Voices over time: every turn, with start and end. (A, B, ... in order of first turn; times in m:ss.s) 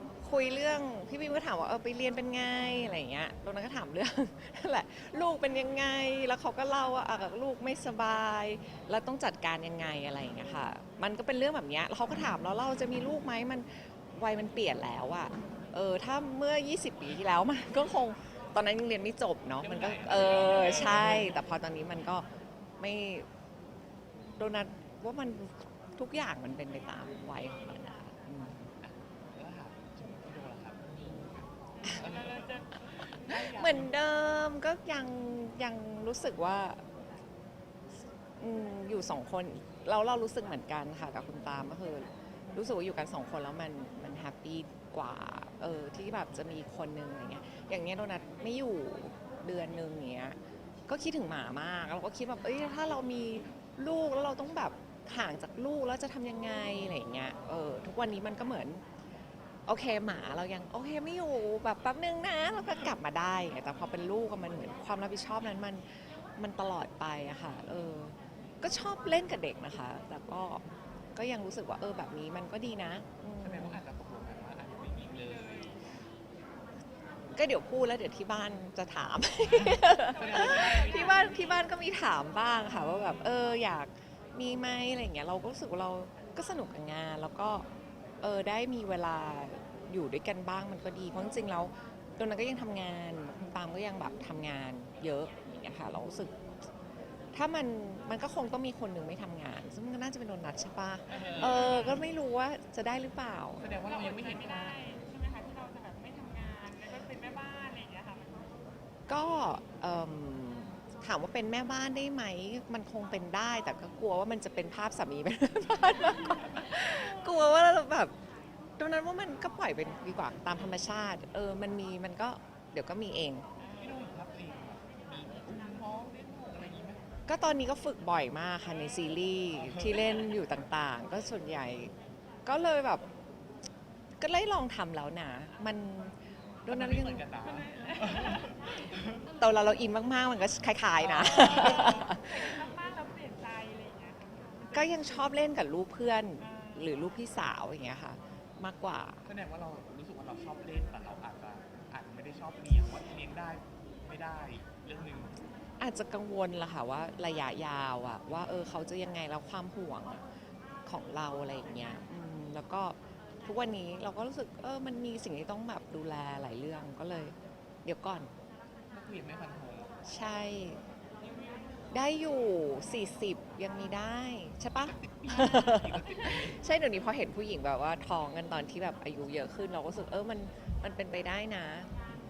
0:00.2-0:22.3 A
0:19.6-0:21.6 B
0:22.8-0:23.3 A
0:24.4-0:28.7 A
0:28.8-0:34.0 B
0:31.8-0:33.3 C
0:33.2-0:36.8 A
0:38.4-0:50.4 A
0:50.9-0:58.8 A
0:59.7-1:13.8 A
1:13.4-1:15.8 B
1:15.4-1:15.8 C
1:17.4-1:27.7 A
1:19.5-1:21.1 B
1:20.0-1:21.7 C
1:28.2-1:36.4 A
1:37.3-1:43.6 A
1:41.1-1:42.0 B
1:41.5-1:42.0 C
1:43.6-1:45.0 B
1:43.9-1:48.6 C
1:49.1-1:58.1 A
1:56.9-1:57.4 C
1:58.8-2:03.5 A
2:03.8-2:07.1 B
2:07.3-2:11.9 A
2:09.8-2:10.1 B
2:12.5-2:13.0 A
2:14.2-2:17.3 A
2:16.7-2:19.2 B
2:17.4-2:18.7 C
2:19.4-2:22.6 A
2:21.0-2:21.9 B
2:21.3-2:25.0 C
2:24.7-2:29.2 A
2:26.4-2:26.9 C
2:29.2-2:35.4 B
2:35.8-2:40.2 A
2:40.9-2:48.3 A
2:48.9-2:49.9 B
2:50.0-2:50.8 A
2:51.9-3:01.9 A
2:54.9-2:56.6 B